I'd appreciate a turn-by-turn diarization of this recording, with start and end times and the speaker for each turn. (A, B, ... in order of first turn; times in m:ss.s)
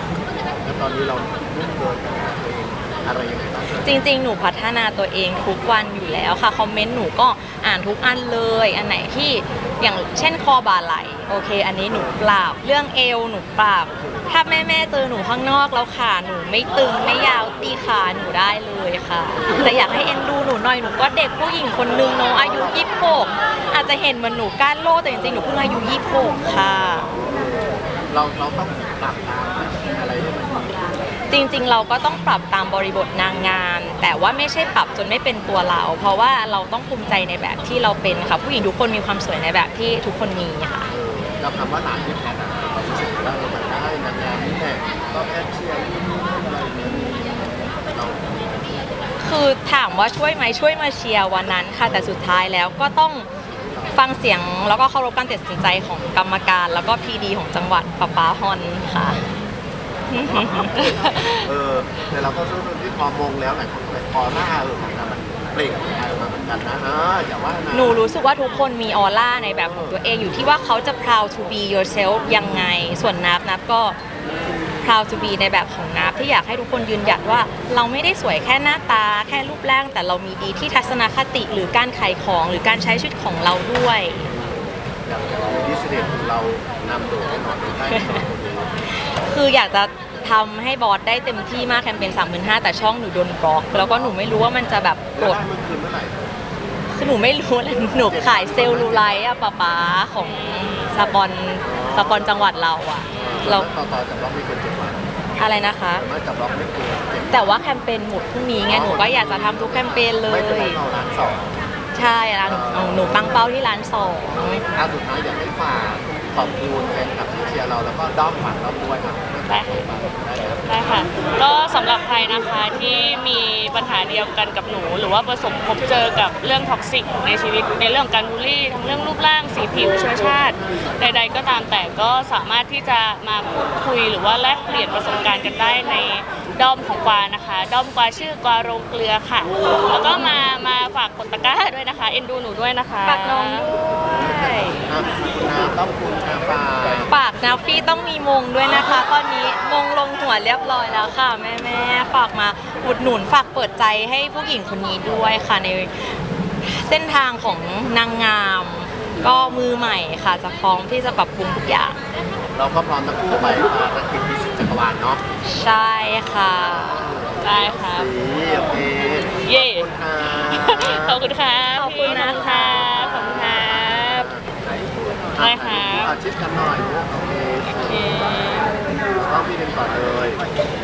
0:00.3-0:04.0 A
0:03.8-0:27.1 B
0:11.9-0:12.2 A
0:13.9-0:14.4 A
0:22.4-0:22.9 A
0:27.0-0:31.0 A
0:31.3-0:40.9 B
0:40.9-0:48.9 A
0:49.2-0:53.3 B
0:51.7-0:52.2 A
0:53.5-0:54.1 A
0:53.9-0:59.3 B
1:00.1-1:01.4 B
1:00.2-1:08.0 A
1:00.8-1:01.4 C
1:07.7-1:14.0 B
1:09.6-1:10.0 A
1:14.8-1:24.3 B
1:24.3-1:28.7 A
1:27.8-1:28.2 B
1:29.0-1:35.4 B
1:33.7-1:34.2 A
1:35.1-1:36.2 A
1:36.9-1:43.7 B
1:38.0-1:39.3 A
1:40.2-1:40.9 C
1:41.6-1:42.5 A
1:43.1-1:45.1 A
1:45.4-1:46.0 B
1:45.9-1:47.5 A
1:47.3-1:50.8 B
1:48.6-1:51.6 A
1:51.9-1:54.6 B
1:52.4-1:53.5 A
1:54.7-2:01.0 A
1:59.4-1:59.9 C
2:00.6-2:24.8 C
2:23.0-2:24.8 B
2:24.0-2:27.1 A
2:27.1-2:42.0 B
2:42.5-2:45.2 A
2:45.4-2:47.1 B
2:46.0-2:51.2 A
2:47.4-2:48.1 C
2:49.4-2:54.3 C
2:51.7-2:52.8 B
2:52.0-2:58.2 A
2:55.4-2:56.1 C
2:57.8-2:58.7 C
2:59.1-3:00.4 A